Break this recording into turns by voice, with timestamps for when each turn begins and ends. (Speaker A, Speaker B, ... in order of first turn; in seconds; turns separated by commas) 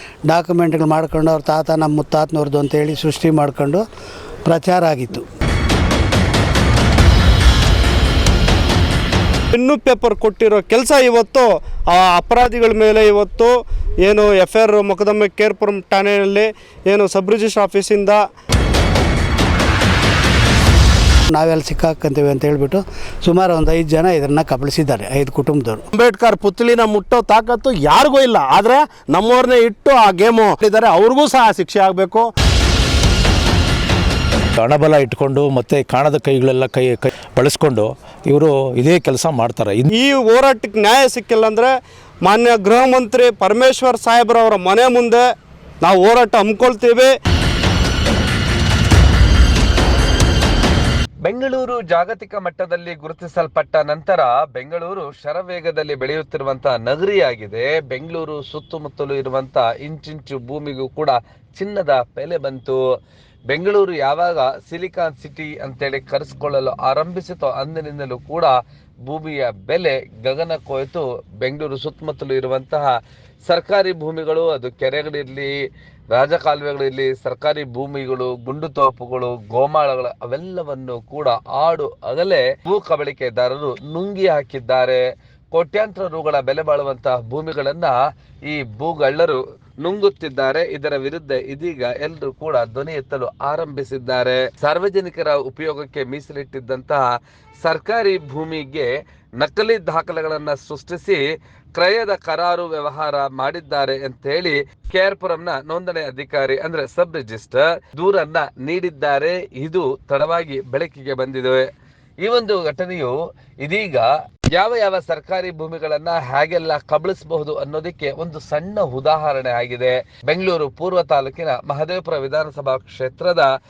Speaker A: 0.2-3.8, Speaker A: 4.5-5.2, Speaker B: 9.5-18.2, Speaker A: 21.3-25.8, Speaker C: 25.9-32.3, Speaker D: 34.5-39.9, Speaker B: 39.9-45.2, Speaker B: 45.8-47.1, Speaker E: 51.2-62.8, Speaker E: 63.5-68.5, Speaker E: 69.0-72.9, Speaker E: 73.5-75.5, Speaker E: 76.1-85.0, Speaker E: 85.5-97.0, Speaker E: 97.6-101.2, Speaker E: 101.7-111.7, Speaker E: 112.2-123.5